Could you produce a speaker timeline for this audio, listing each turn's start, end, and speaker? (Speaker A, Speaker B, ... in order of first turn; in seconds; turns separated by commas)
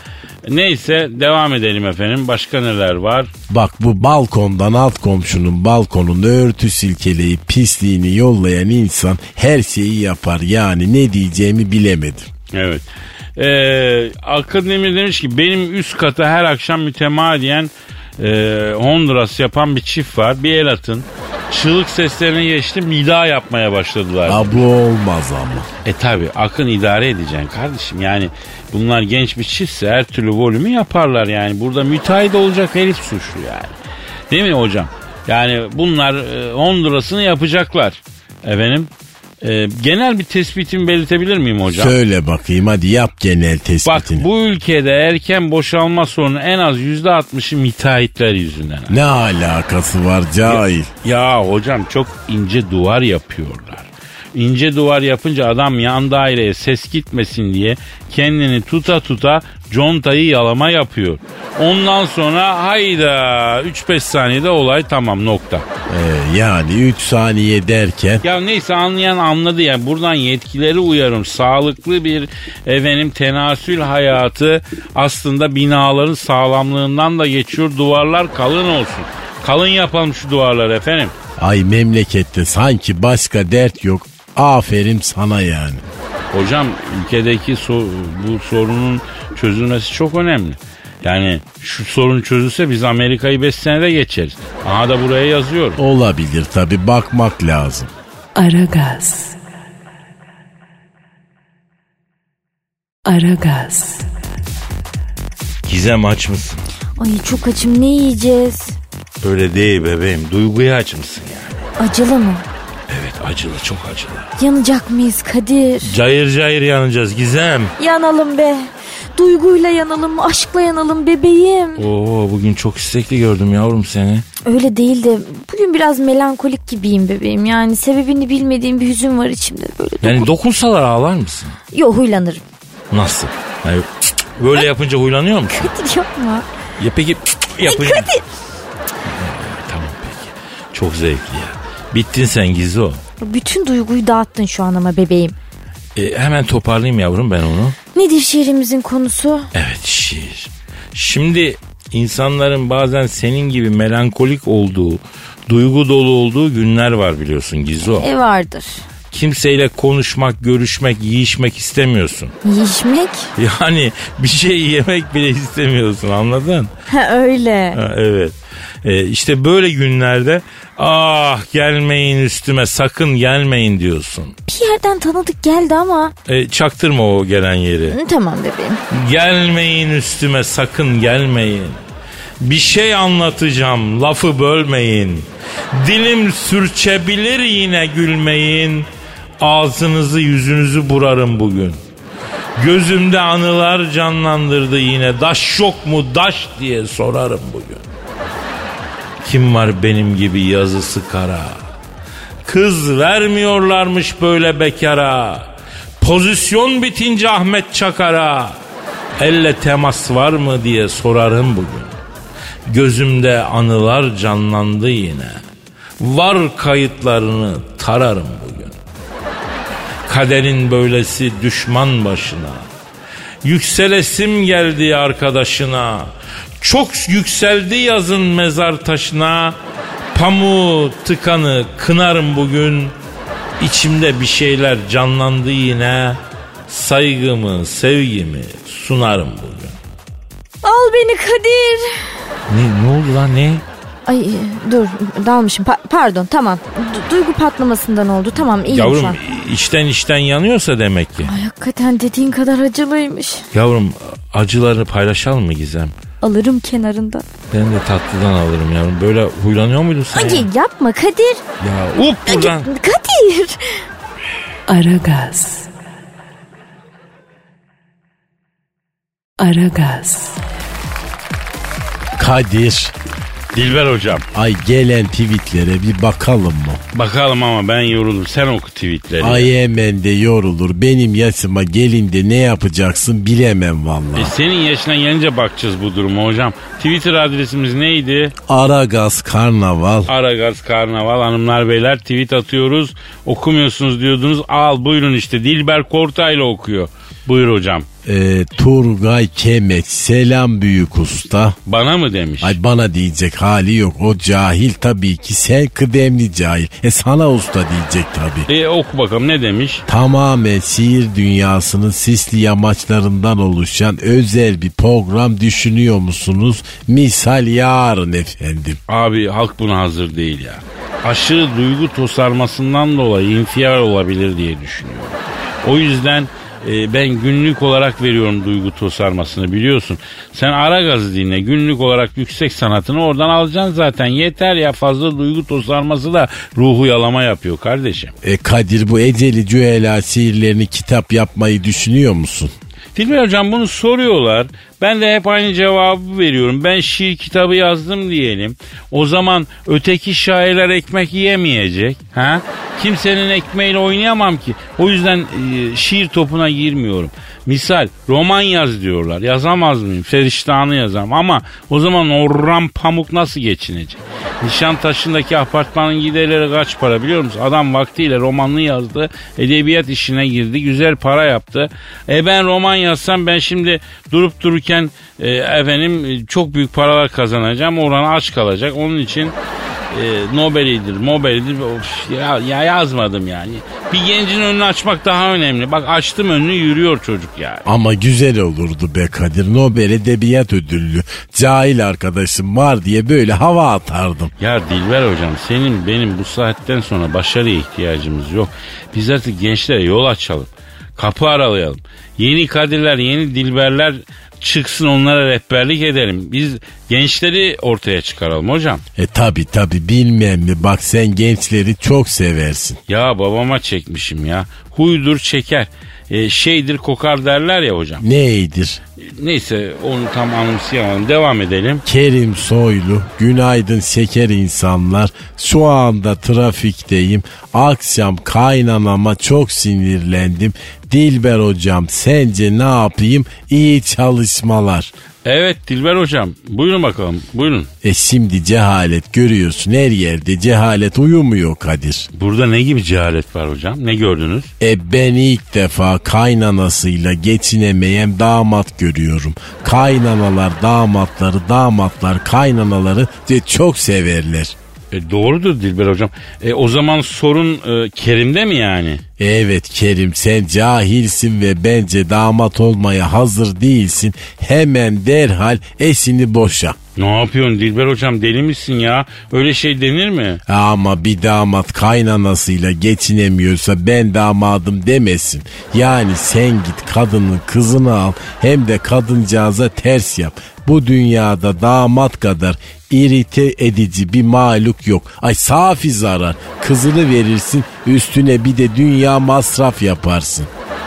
Speaker A: 0.5-3.3, Speaker B: 3.5-12.3, Speaker A: 12.5-12.8, Speaker A: 13.4-24.6, Speaker B: 24.3-25.7, Speaker A: 25.9-33.7, Speaker A: 34.3-38.9, Speaker A: 39.4-41.9, Speaker B: 41.7-44.3, Speaker A: 43.9-49.0, Speaker B: 48.9-50.9, Speaker A: 50.5-65.7, Speaker B: 65.9-68.2, Speaker A: 68.2-81.1, Speaker B: 81.4-85.8, Speaker A: 86.3-95.8, Speaker B: 95.8-97.9, Speaker C: 98.4-99.4, Speaker C: 103.1-104.1, Speaker D: 105.7-106.6, Speaker E: 107.0-108.8, Speaker D: 109.2-111.7, Speaker E: 111.8-112.5, Speaker D: 112.9-114.3, Speaker E: 114.4-115.9, Speaker D: 115.9-117.7, Speaker E: 117.8-121.8, Speaker D: 121.8-124.2, Speaker E: 124.5-130.3, Speaker D: 130.0-131.6, Speaker E: 131.7-132.4, Speaker D: 132.9-135.7, Speaker E: 135.5-136.5, Speaker D: 136.8-138.1, Speaker E: 137.7-138.2, Speaker D: 139.1-143.0, Speaker E: 143.2-145.4, Speaker D: 146.0-147.8, Speaker E: 147.9-149.5, Speaker D: 149.5-158.1, Speaker E: 157.9-158.8, Speaker D: 159.1-162.3, Speaker E: 162.4-163.3, Speaker D: 163.4-166.7, Speaker E: 166.9-167.8, Speaker D: 167.8-174.3, Speaker E: 174.5-176.2, Speaker D: 176.3-178.0, Speaker E: 177.9-178.8, Speaker D: 178.9-181.8, Speaker D: 182.4-188.9, Speaker D: 189.4-191.8, Speaker D: 192.6-197.8, Speaker D: 199.2-201.6, Speaker D: 202.4-208.6, Speaker D: 209.2-211.9, Speaker D: 212.7-215.4, Speaker D: 216.0-218.8, Speaker D: 220.1-222.7, Speaker D: 223.4-229.6, Speaker D: 230.1-233.0, Speaker D: 233.6-239.8, Speaker E: 240.6-242.2, Speaker D: 242.5-243.6, Speaker E: 244.1-249.2, Speaker D: 248.7-251.3, Speaker E: 251.2-253.5, Speaker D: 253.5-256.0, Speaker E: 256.2-257.3, Speaker D: 257.5-260.5, Speaker E: 260.1-261.4, Speaker D: 261.6-262.7, Speaker E: 262.3-263.8, Speaker C: 264.7-265.7, Speaker C: 269.4-270.4, Speaker B: 272.2-272.9, Speaker A: 273.5-274.2, Speaker B: 274.3-276.8, Speaker A: 276.9-279.5, Speaker B: 279.2-284.3, Speaker A: 284.2-288.4, Speaker B: 288.5-290.1, Speaker A: 290.1-297.9, Speaker B: 298.1-301.6, Speaker A: 301.7-302.6, Speaker B: 302.4-308.5, Speaker A: 308.5-309.8, Speaker B: 309.9-318.8, Speaker A: 318.9-338.1, Speaker B: 338.2-342.5, Speaker A: 342.9-379.4, Speaker A: 379.9-387.7, Speaker B: 387.7-394.3, Speaker A: 394.4-408.8, Speaker B: 409.0-412.8, Speaker A: 412.9-418.0, Speaker B: 418.0-418.8, Speaker A: 419.0-421.8, Speaker B: 421.9-434.9, Speaker A: 435.2-437.7, Speaker B: 437.8-442.1, Speaker A: 442.1-444.5, Speaker B: 444.6-454.6, Speaker A: 454.9-459.0, Speaker B: 459.2-466.8, Speaker A: 467.0-470.4, Speaker B: 470.5-490.5